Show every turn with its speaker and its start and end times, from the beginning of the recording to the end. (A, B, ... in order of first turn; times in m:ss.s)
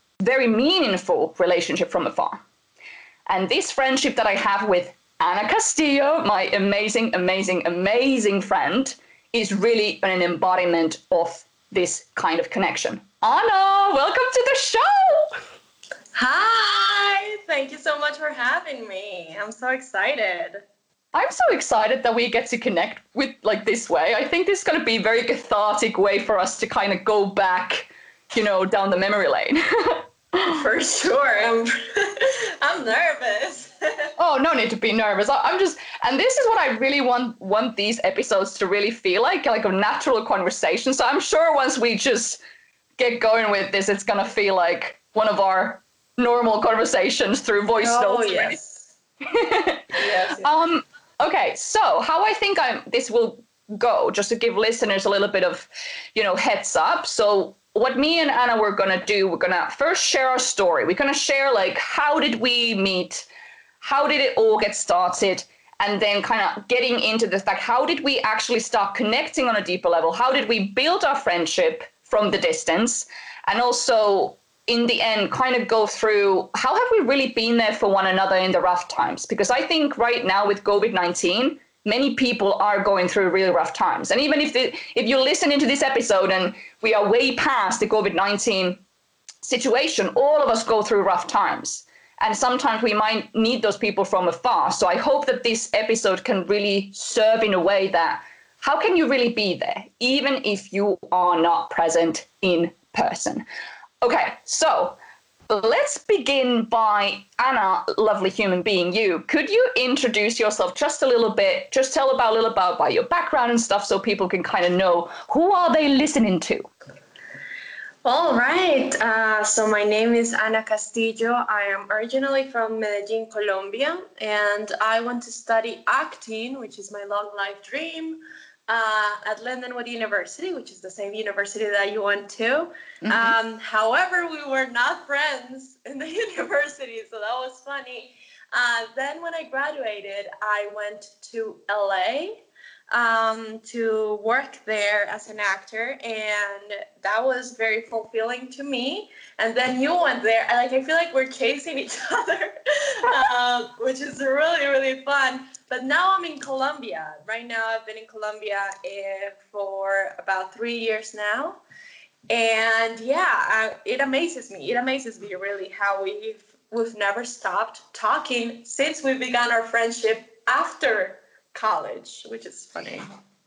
0:00.2-0:02.4 A
0:03.3-0:15.3 A
0:16.1-0:20.6 B
0:21.1-0:30.5 A
0:30.5-0:34.1 B
0:34.2-0:42.4 A
0:43.0-0:48.6 A
0:47.8-0:48.9 B
0:49.3-1:03.3 A
0:49.9-0:50.5 B
1:03.8-1:28.8 A
1:29.4-1:43.4 A
1:44.0-1:45.0 A
1:45.5-1:56.7 A
1:58.0-2:41.6 B
2:13.0-2:13.4 A
2:42.3-2:53.0 B